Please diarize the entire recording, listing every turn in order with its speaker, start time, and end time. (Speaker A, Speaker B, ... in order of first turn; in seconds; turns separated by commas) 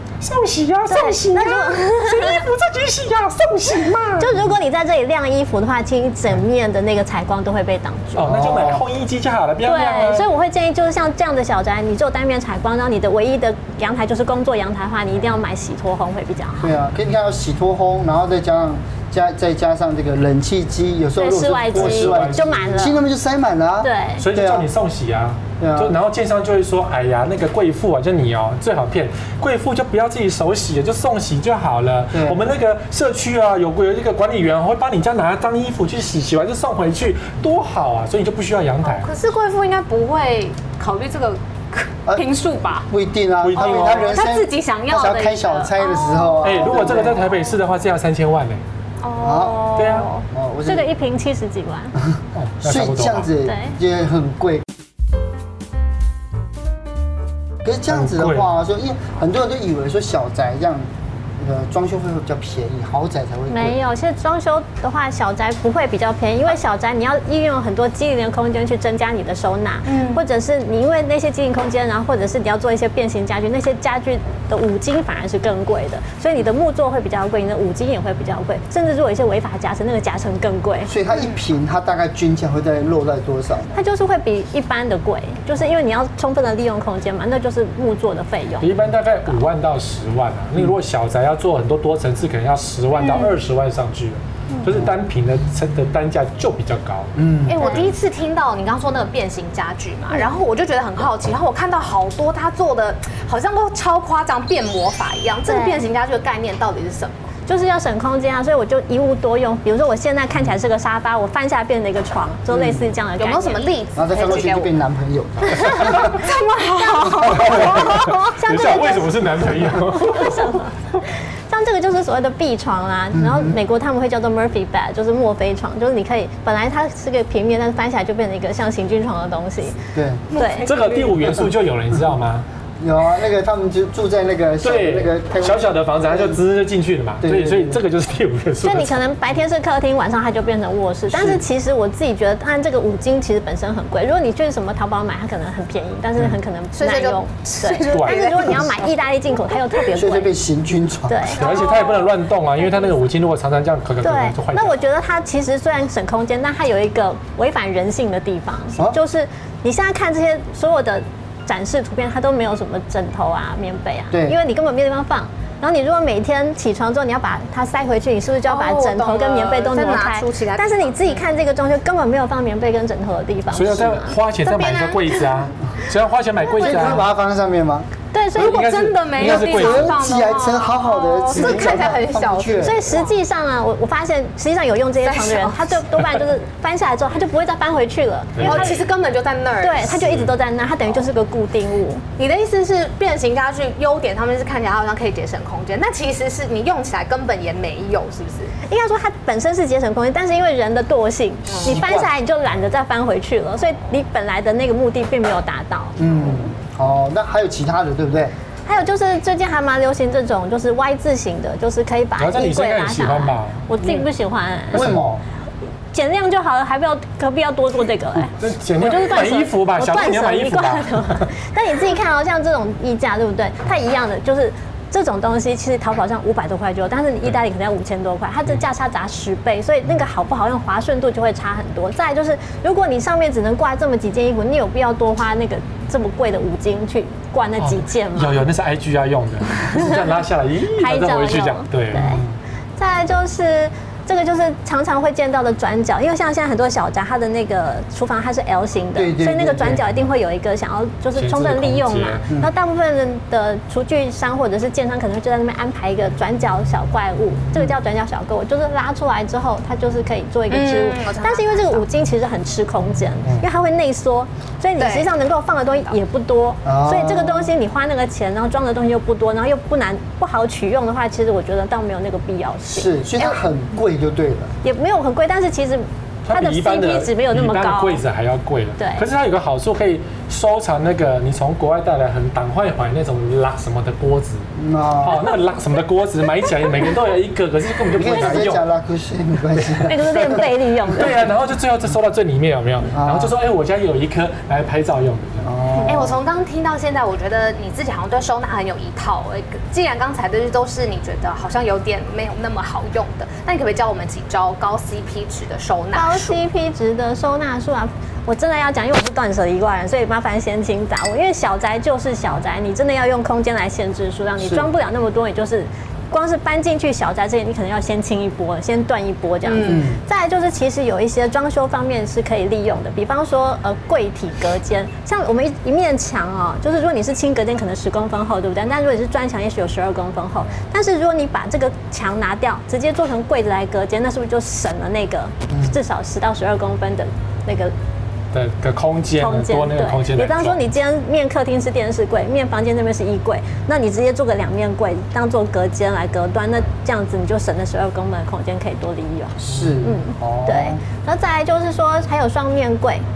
Speaker A: 0.2-4.4, Speaker B: 0.9-2.4, Speaker B: 4.2-8.7, Speaker A: 8.1-10.3, Speaker C: 8.2-8.8, Speaker B: 9.6-16.7, Speaker C: 16.6-24.7, Speaker B: 21.2-23.0, Speaker A: 21.7-22.9, Speaker B: 23.8-24.3, Speaker A: 24.2-39.1, Speaker C: 25.6-25.9, Speaker C: 32.1-32.4, Speaker D: 38.8-42.9, Speaker C: 42.9-47.3, Speaker A: 43.4-44.2, Speaker D: 43.5-47.5, Speaker A: 46.4-48.6, Speaker D: 49.0-50.2, Speaker C: 49.2-49.7, Speaker A: 49.7-50.1, Speaker B: 49.9-52.0, Speaker C: 50.3-50.9, Speaker A: 52.3-53.3, Speaker C: 52.6-54.7, Speaker B: 53.4-53.8, Speaker C: 57.6-63.8, Speaker A: 57.9-58.5, Speaker B: 63.5-80.9, Speaker D: 69.8-70.2, Speaker C: 80.8-83.8, Speaker B: 83.7-88.7, Speaker A: 88.6-97.9, Speaker D: 93.0-93.4, Speaker C: 97.2-97.6, Speaker D: 97.5-107.3, Speaker B: 105.5-105.8, Speaker B: 107.5-113.6, Speaker C: 112.5-112.9, Speaker D: 113.2-114.7, Speaker C: 114.0-116.1, Speaker B: 115.5-120.7, Speaker D: 115.6-118.3, Speaker A: 117.7-121.0, Speaker B: 121.5-129.8, Speaker C: 123.1-123.6, Speaker C: 129.9-130.2, Speaker D: 130.3-131.4, Speaker B: 130.3-130.7, Speaker A: 130.6-132.4, Speaker C: 132.8-136.4, Speaker A: 134.6-139.0, Speaker C: 137.2-137.8, Speaker B: 138.6-150.3, Speaker C: 141.1-141.4, Speaker D: 146.7-148.9, Speaker A: 147.9-148.6, Speaker C: 149.9-151.3, Speaker B: 151.1-151.6, Speaker D: 151.3-152.2, Speaker A: 151.3-154.8, Speaker B: 154.0-174.2, Speaker C: 164.1-164.4, Speaker D: 168.4-171.2, Speaker A: 173.5-177.1, Speaker D: 174.4-175.3, Speaker B: 176.6-176.9, Speaker C: 176.6-177.9, Speaker B: 178.1-178.6, Speaker D: 178.3-183.2, Speaker A: 178.3-179.9, Speaker C: 179.2-182.8, Speaker A: 181.4-181.8, Speaker B: 182.6-188.8, Speaker D: 185.0-185.8, Speaker A: 188.3-188.8, Speaker D: 188.4-189.9, Speaker B: 189.6-192.0, Speaker A: 189.8-190.3, Speaker D: 192.2-198.5, Speaker B: 198.6-206.1, Speaker D: 201.5-201.8, Speaker C: 201.6-202.1, Speaker C: 206.0-208.3, Speaker B: 208.7-214.9, Speaker A: 212.2-214.0, Speaker A: 214.7-215.2, Speaker C: 214.7-215.2, Speaker B: 215.9-238.5, Speaker A: 218.3-221.3, Speaker A: 237.6-242.1, Speaker B: 239.6-240.0, Speaker B: 240.8-242.2, Speaker C: 241.9-242.3, Speaker B: 242.8-273.4, Speaker C: 248.9-249.8, Speaker A: 251.2-252.3, Speaker D: 260.5-261.8, Speaker A: 263.2-263.5, Speaker D: 264.8-265.1, Speaker C: 266.6-267.5, Speaker C: 272.7-274.5, Speaker B: 274.6-278.0, Speaker A: 276.2-284.5, Speaker B: 278.8-279.1, Speaker C: 284.6-285.3, Speaker A: 285.0-288.6, Speaker C: 287.9-290.4, Speaker B: 289.8-291.2, Speaker A: 290.9-295.5, Speaker C: 292.9-293.3, Speaker C: 295.4-296.2, Speaker D: 295.8-306.4, Speaker B: 305.9-337.7, Speaker C: 314.4-314.7, Speaker D: 319.4-319.9, Speaker C: 319.7-320.0, Speaker A: 338.3-340.6, Speaker B: 339.2-353.0, Speaker C: 349.4-350.8, Speaker A: 349.5-349.8